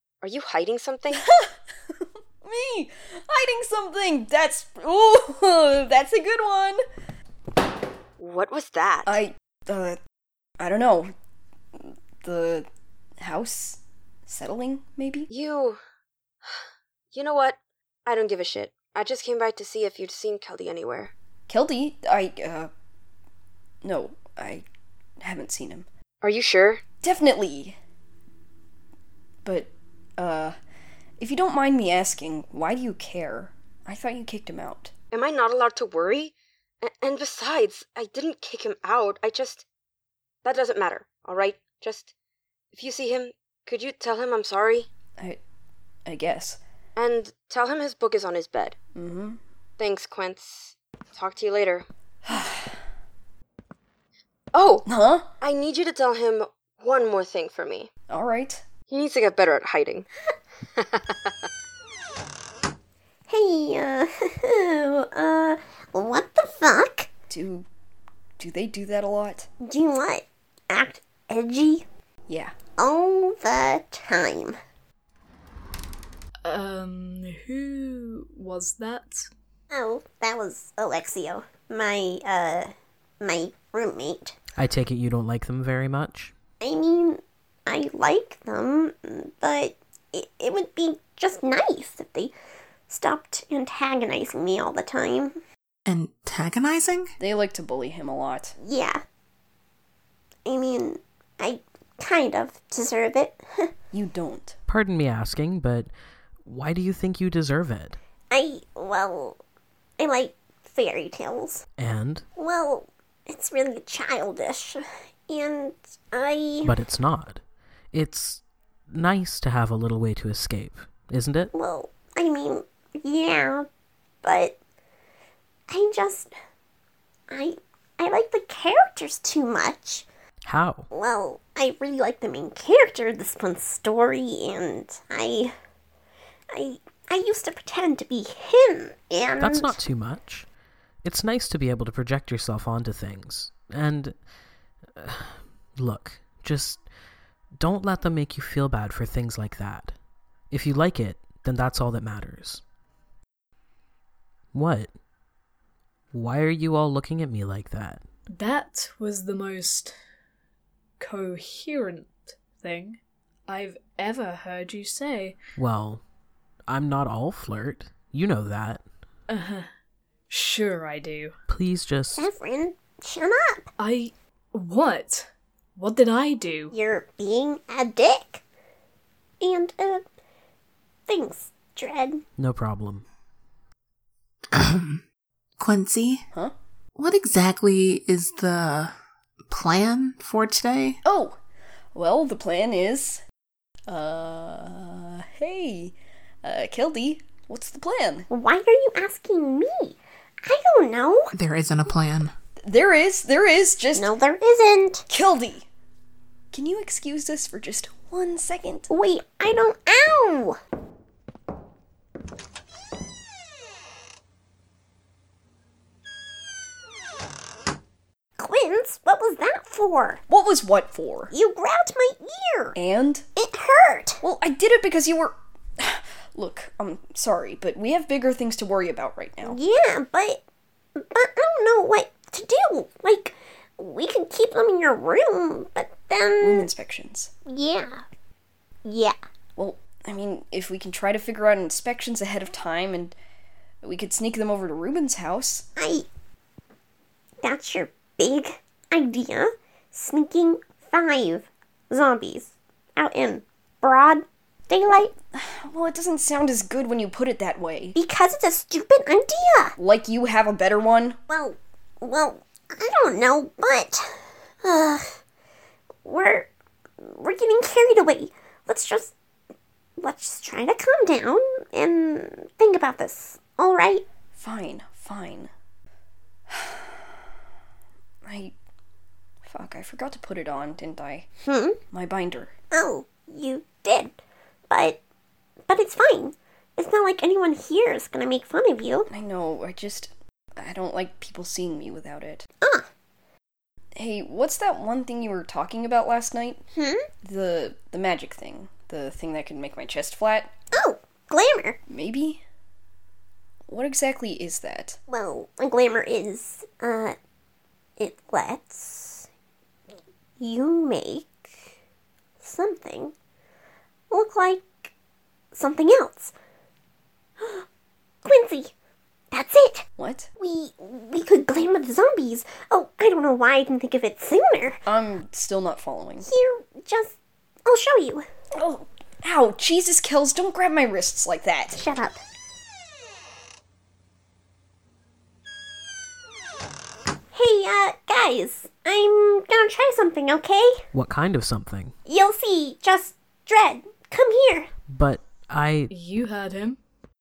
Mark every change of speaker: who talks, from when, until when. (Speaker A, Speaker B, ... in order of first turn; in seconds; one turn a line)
Speaker A: 0.2-1.2
Speaker B: 1.1-6.8
Speaker A: 8.2-9.1
Speaker B: 9.0-10.0
Speaker B: 10.6-11.1
Speaker B: 11.8-12.7
Speaker B: 13.2-15.3
Speaker A: 15.3-15.8
Speaker A: 16.4-21.1
Speaker B: 21.5-22.7
Speaker B: 23.8-24.6
Speaker B: 25.2-25.9
Speaker A: 26.2-26.8
Speaker B: 27.0-27.8
Speaker B: 29.4-30.6
Speaker B: 31.2-34.9
Speaker A: 35.1-39.6
Speaker A: 40.4-42.1
Speaker A: 42.7-44.9
Speaker B: 46.0-46.6
Speaker A: 47.0-48.7
Speaker B: 48.9-49.4
Speaker A: 49.8-51.9
Speaker B: 52.2-52.7
Speaker A: 54.5-54.8
Speaker B: 54.8-55.3
Speaker A: 55.4-57.9
Speaker B: 58.1-58.6
Speaker A: 58.9-60.1
Speaker A: 60.8-61.3
Speaker C: 63.3-67.1
Speaker B: 67.3-67.7
Speaker B: 68.4-69.5
Speaker C: 69.6-71.8
Speaker B: 72.3-72.5
Speaker C: 72.8-74.6
Speaker D: 76.4-79.3
Speaker C: 79.7-84.3
Speaker E: 84.6-86.3
Speaker C: 86.6-92.3
Speaker C: 92.9-95.4
Speaker F: 95.8-97.1
Speaker B: 97.2-98.5
Speaker C: 98.6-99.0
Speaker C: 100.5-103.7
Speaker B: 103.9-104.5
Speaker E: 104.7-105.9
Speaker E: 106.4-108.0
Speaker C: 108.3-109.4
Speaker C: 110.0-111.7
Speaker E: 111.8-112.2
Speaker C: 112.4-116.7
Speaker E: 116.6-117.4
Speaker E: 117.9-121.5
Speaker C: 121.5-123.7
Speaker C: 124.2-124.6
Speaker C: 125.7-126.3
Speaker C: 127.3-130.1
Speaker E: 130.4-130.9
Speaker C: 130.9-135.5
Speaker C: 136.5-139.8
Speaker E: 139.4-140.4
Speaker E: 141.0-144.1
Speaker E: 144.9-146.8
Speaker E: 147.6-149.9
Speaker E: 150.5-152.6
Speaker E: 154.5-154.9
Speaker E: 156.1-158.0
Speaker D: 158.3-159.9
Speaker D: 161.0-165.4
Speaker E: 165.6-166.0
Speaker E: 166.7-168.8
Speaker D: 169.3-169.7
Speaker D: 170.3-171.3
Speaker E: 171.5-172.3
Speaker C: 172.1-173.7
Speaker D: 173.8-176.7
Speaker C: 176.7-178.4
Speaker C: 179.4-180.0
Speaker C: 181.1-182.2
Speaker E: 182.4-183.0
Speaker F: 184.5-185.0
Speaker F: 185.6-186.2
Speaker F: 186.9-188.9
Speaker F: 189.5-191.0
Speaker B: 191.0-191.4
Speaker B: 191.9-193.2
Speaker B: 193.9-198.3
Speaker C: 198.3-201.3
Speaker F: 201.3-202.3
Speaker B: 202.6-204.1
Speaker C: 203.9-205.1
Speaker B: 205.1-205.7
Speaker B: 206.5-208.9
Speaker C: 208.9-210.6
Speaker C: 218.4-220.2
Speaker B: 220.3-221.3
Speaker C: 221.3-222.7
Speaker B: 222.7-223.2
Speaker C: 223.4-224.2
Speaker B: 224.2-229.6
Speaker C: 229.4-230.4
Speaker C: 231.0-236.7
Speaker B: 236.4-237.3
Speaker C: 237.5-238.0
Speaker C: 238.8-239.1
Speaker B: 239.6-243.2
Speaker B: 243.8-245.7
Speaker C: 245.8-246.1
Speaker C: 247.4-255.1
Speaker B: 255.3-257.9
Speaker C: 257.9-259.8
Speaker B: 259.8-261.2
Speaker C: 261.3-264.1
Speaker C: 264.6-265.2
Speaker C: 266.0-266.5
Speaker C: 267.0-269.1
Speaker C: 270.0-274.0
Speaker B: 274.3-275.5
Speaker B: 276.5-277.1
Speaker B: 278.2-278.5
Speaker B: 279.4-281.3
Speaker C: 281.4-281.8
Speaker B: 281.9-282.5
Speaker C: 282.7-284.1
Speaker C: 284.7-285.0
Speaker C: 285.7-289.1
Speaker B: 289.1-292.4
Speaker C: 292.6-292.9
Speaker B: 293.9-296.6
Speaker C: 296.7-297.1
Speaker B: 297.2-300.5
Speaker C: 300.7-301.8
Speaker B: 301.9-302.4
Speaker B: 303.7-305.0
Speaker C: 305.1-307.1
Speaker C: 308.0-309.3
Speaker C: 310.4-311.5
Speaker C: 312.4-313.1
Speaker C: 314.1-314.9
Speaker C: 315.5-316.3
Speaker C: 317.4-317.6
Speaker C: 318.2-318.7
Speaker C: 319.3-319.8
Speaker B: 320.0-320.3
Speaker C: 320.4-324.8
Speaker B: 324.9-326.3
Speaker C: 326.2-328.2
Speaker B: 328.6-331.8
Speaker C: 331.7-332.2
Speaker C: 337.3-340.7
Speaker E: 340.9-341.9
Speaker C: 342.0-344.7
Speaker E: 344.9-345.9
Speaker D: 345.9-346.8